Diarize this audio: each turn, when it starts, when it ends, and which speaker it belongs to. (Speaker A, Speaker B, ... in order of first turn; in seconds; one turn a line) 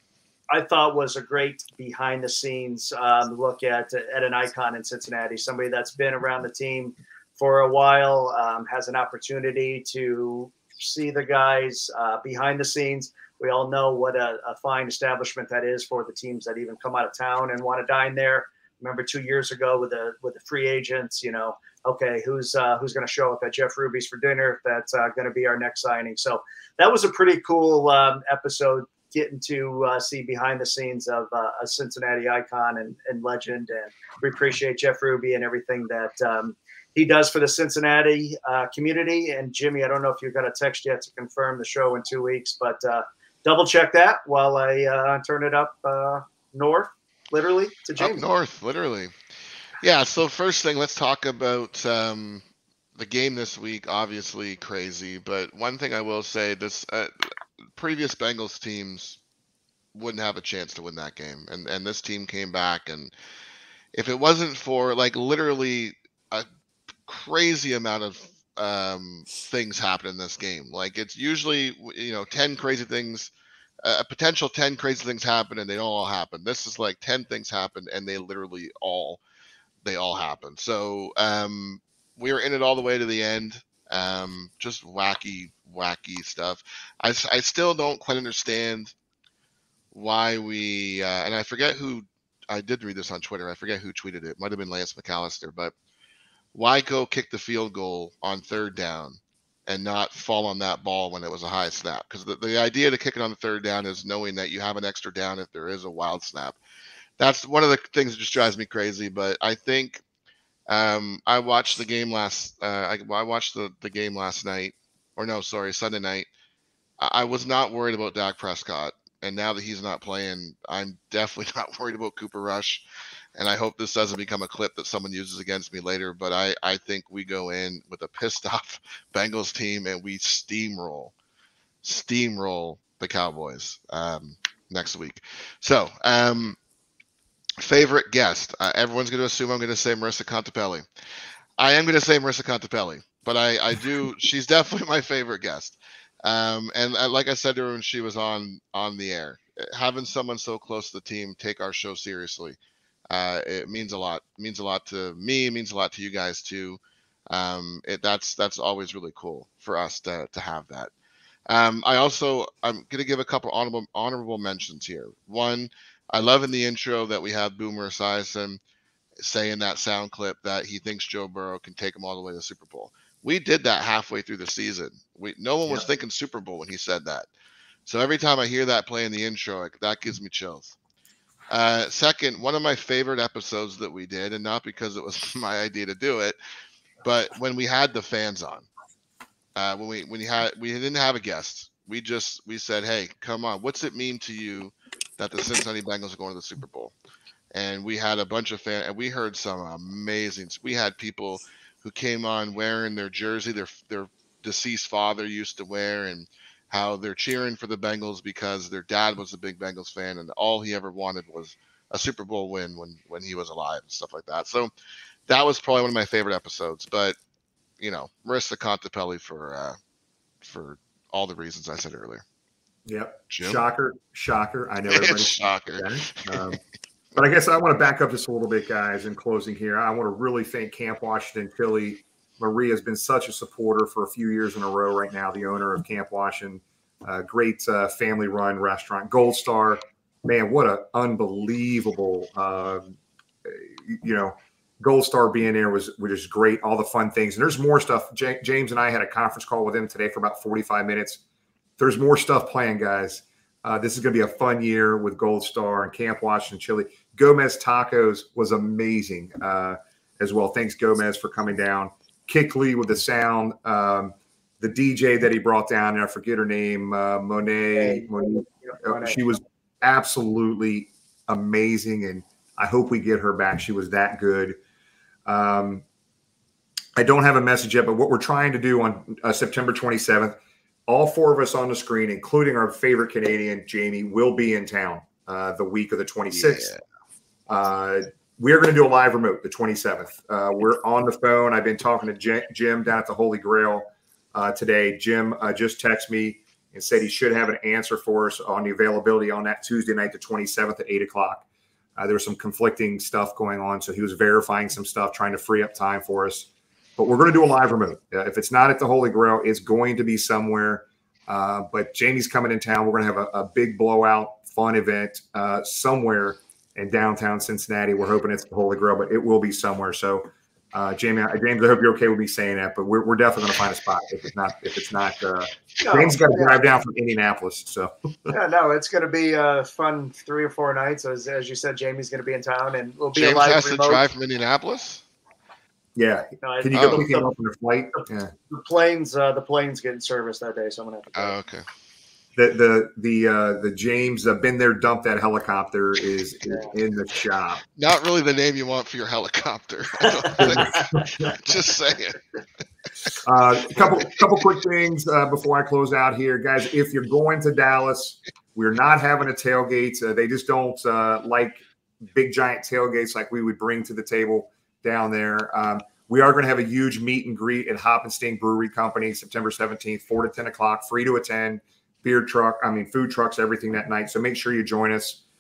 Speaker A: 0.5-48.3
Speaker B: 48.0-49.1
Speaker B: 49.8-52.4
Speaker B: 53.0-57.1
Speaker B: 57.8-59.2
Speaker B: 59.9-63.1
Speaker B: 63.9-66.5
Speaker B: 67.1-73.3
Speaker B: 73.8-79.2
Speaker B: 79.8-88.9
Speaker B: 89.9-95.7
Speaker B: 96.5-106.6
Speaker B: 107.2-110.0
Speaker B: 110.7-116.3
Speaker B: 117.0-122.8
Speaker B: 123.3-131.1
Speaker B: 131.8-136.6
Speaker B: 137.6-140.8
Speaker B: 141.6-152.6
Speaker B: 153.1-156.8
Speaker B: 157.3-160.9
Speaker B: 161.5-168.6
Speaker B: 169.2-177.3
Speaker B: 177.9-180.8
Speaker B: 181.5-186.4
Speaker B: 187.0-188.7
Speaker B: 189.6-196.9
Speaker B: 197.5-214.7
Speaker B: 215.3-217.2
Speaker B: 217.8-219.8
Speaker B: 220.4-222.2
Speaker C: 222.9-226.6
Speaker B: 223.3-223.6
Speaker B: 224.9-226.5
Speaker C: 227.2-251.2
Speaker C: 251.8-274.6
Speaker A: 267.8-269.2
Speaker C: 275.3-275.8
Speaker C: 277.0-286.7
Speaker B: 286.3-286.8
Speaker C: 287.5-301.4
Speaker C: 302.0-328.4
Speaker A: 325.8-326.6
Speaker A: 328.3-334.1
Speaker B: 333.1-335.0
Speaker C: 335.9-338.3
Speaker A: 336.4-337.3
Speaker B: 336.7-337.1
Speaker A: 338.5-341.4
Speaker B: 341.1-341.6
Speaker C: 342.4-347.6
Speaker B: 347.8-352.2
Speaker A: 350.1-350.9
Speaker C: 350.4-351.4
Speaker C: 353.2-375.2